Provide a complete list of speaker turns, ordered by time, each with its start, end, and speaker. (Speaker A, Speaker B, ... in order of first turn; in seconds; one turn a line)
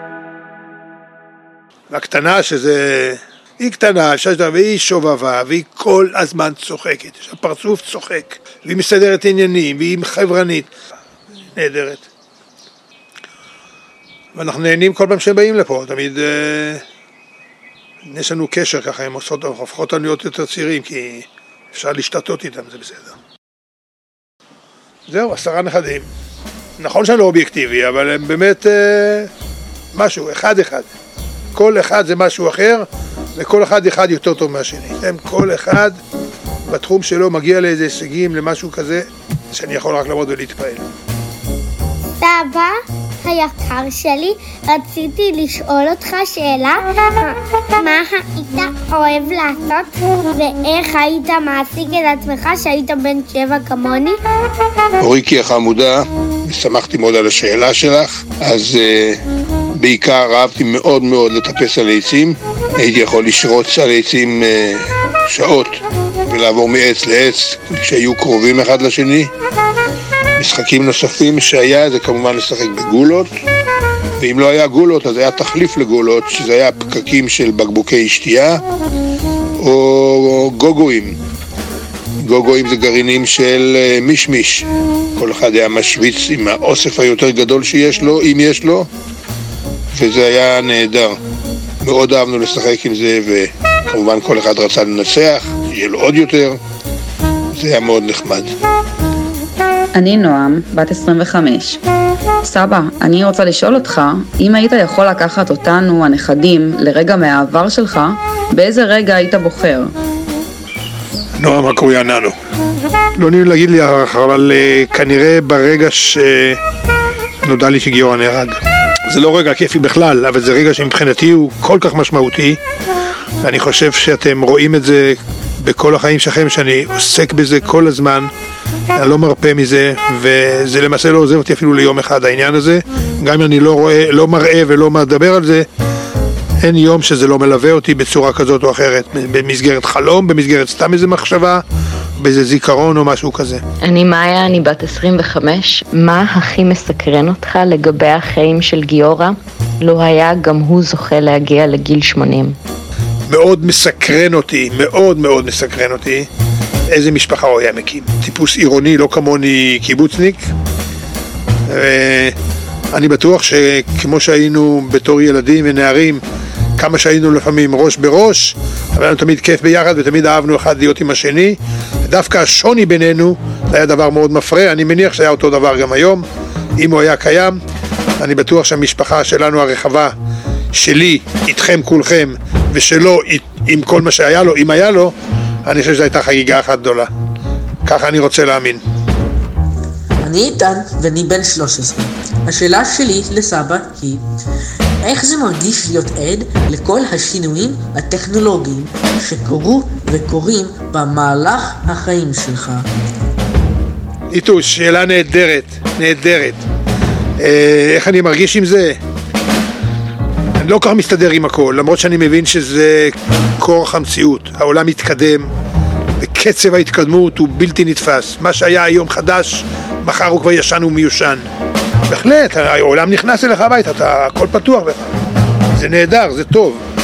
Speaker A: 1.9-10.7
Speaker A: 11.5-12.1
Speaker A: 14.3-16.8
Speaker A: 18.0-23.1
Speaker A: 25.1-26.1
Speaker A: 26.8-29.3
Speaker A: 29.9-30.9
Speaker A: 31.5-36.0
Speaker A: 36.7-40.9
Speaker B: 42.2-54.2
Speaker A: 55.0-59.2
Speaker A: 59.7-69.3
Speaker A: 70.4-73.3
Speaker A: 74.2-78.6
Speaker A: 79.6-81.2
Speaker A: 82.2-88.9
Speaker A: 89.9-91.2
Speaker A: 91.8-96.6
Speaker A: 97.5-98.5
Speaker C: 99.9-101.8
Speaker C: 102.4-109.9
Speaker A: 111.4-112.3
Speaker A: 113.2-116.6
Speaker A: 117.4-122.6
Speaker A: 123.4-128.3
Speaker A: 128.9-135.7
Speaker A: 136.6-141.6
Speaker A: 142.2-143.6
Speaker D: 143.8-152.6
Speaker A: 153.3-156.3
Speaker A: 156.9-160.4
Speaker A: 161.7-162.3
Speaker A: 162.9-166.2
Speaker A: 166.8-176.2
Speaker A: 176.8-177.6
Speaker A: 178.2-180.1
Speaker A: 180.7-185.1
Speaker A: 185.6-187.1
Speaker A: 187.8-188.8
Speaker E: 190.2-194.2
Speaker E: 195.0-202.8
Speaker A: 204.3-206.6
Speaker A: 207.4-209.0
Speaker A: 210.6-215.5
Speaker A: 216.2-221.4
Speaker A: 222.1-225.1
Speaker A: 225.7-226.8